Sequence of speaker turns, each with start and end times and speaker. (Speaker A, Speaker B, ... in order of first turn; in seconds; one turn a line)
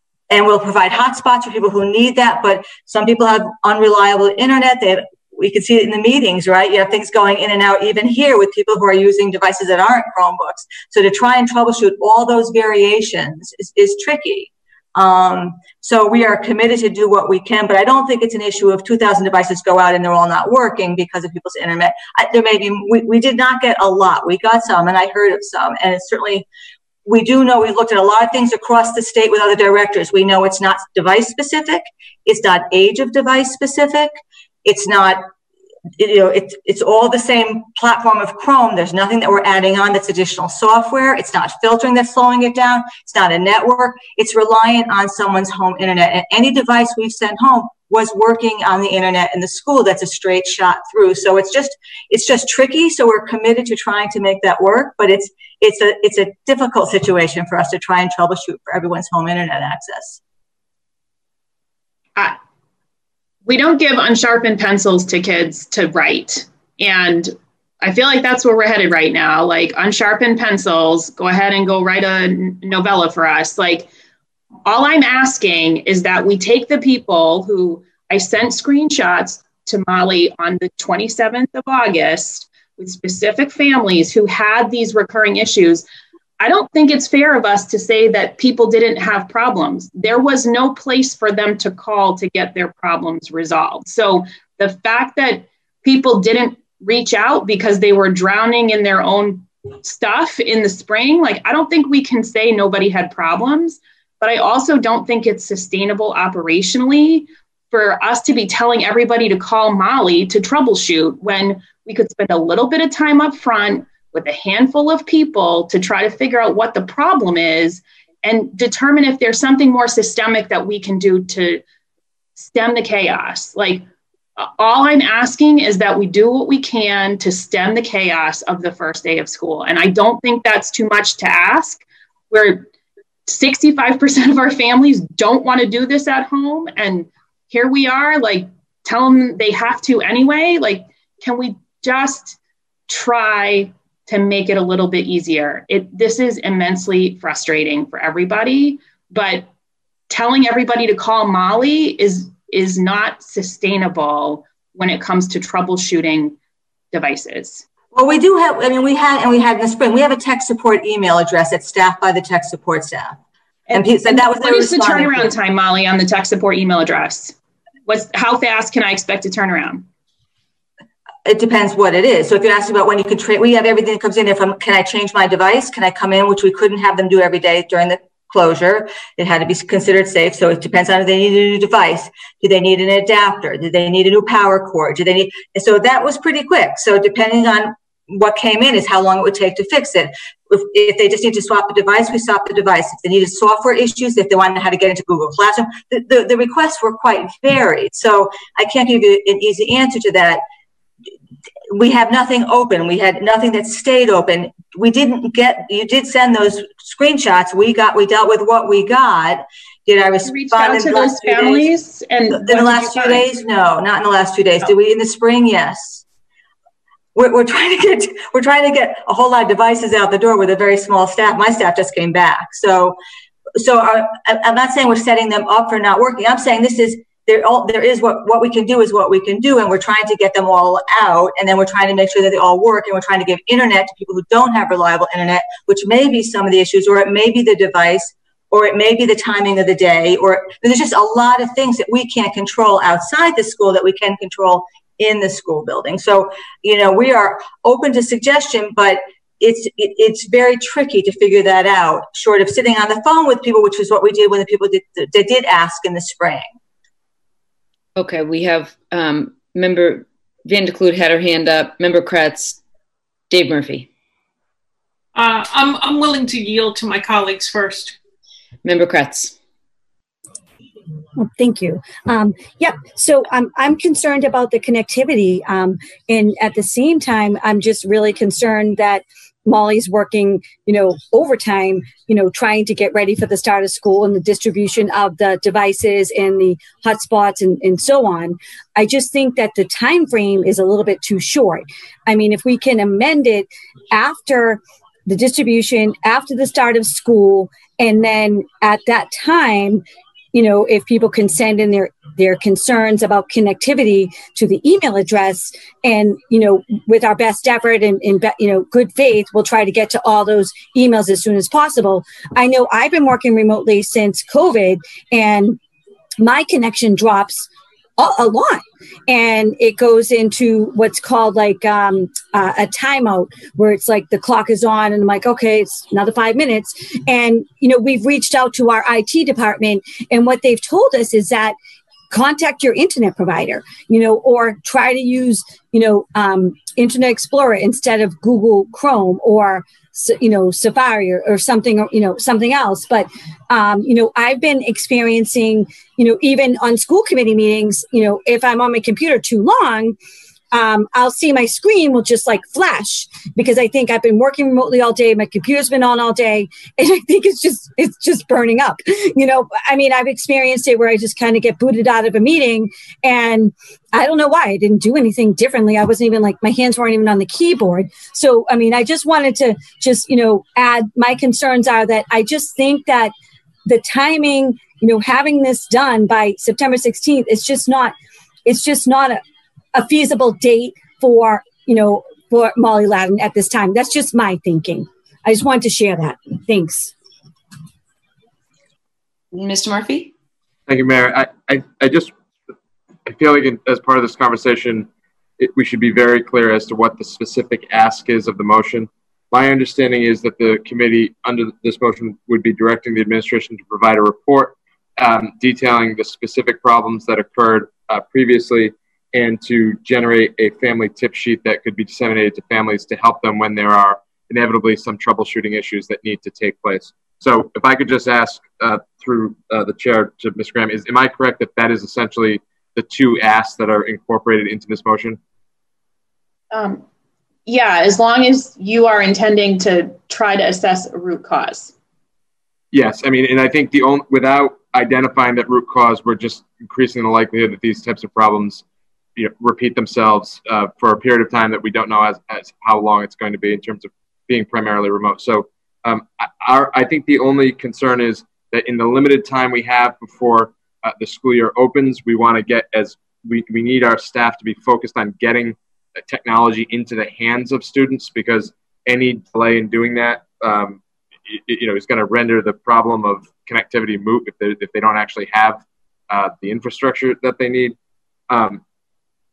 Speaker A: 0.3-26.5
Speaker A: 27.1-34.1
Speaker A: 34.6-35.3
Speaker A: 36.0-60.2
Speaker B: 63.5-73.9
Speaker B: 74.7-85.8
Speaker B: 86.4-121.6
Speaker B: 122.4-123.8
Speaker B: 124.4-132.7
Speaker B: 133.3-142.4
Speaker B: 142.9-149.5
Speaker B: 150.1-156.4
Speaker B: 156.9-157.7
Speaker A: 157.9-163.2
Speaker B: 163.7-167.3
Speaker A: 163.7-165.4
Speaker B: 167.9-169.9
Speaker A: 171.3-200.4
Speaker A: 201.7-211.8
Speaker B: 210.3-213.3
Speaker A: 212.3-216.0
Speaker A: 217.2-223.0
Speaker A: 223.6-256.5
Speaker C: 258.0-262.6
Speaker C: 263.3-263.9
Speaker D: 265.1-268.0
Speaker C: 268.6-269.4
Speaker E: 271.2-299.8
Speaker E: 300.3-315.6
Speaker E: 316.2-331.6
Speaker E: 332.1-350.0
Speaker E: 350.5-373.1
Speaker E: 373.7-379.2
Speaker E: 379.7-386.9
Speaker C: 389.3-390.1
Speaker F: 390.7-392.1
Speaker F: 393.1-425.2
Speaker B: 426.5-426.8
Speaker B: 427.5-431.7
Speaker F: 432.7-438.6
Speaker F: 439.2-467.8
Speaker F: 468.3-468.6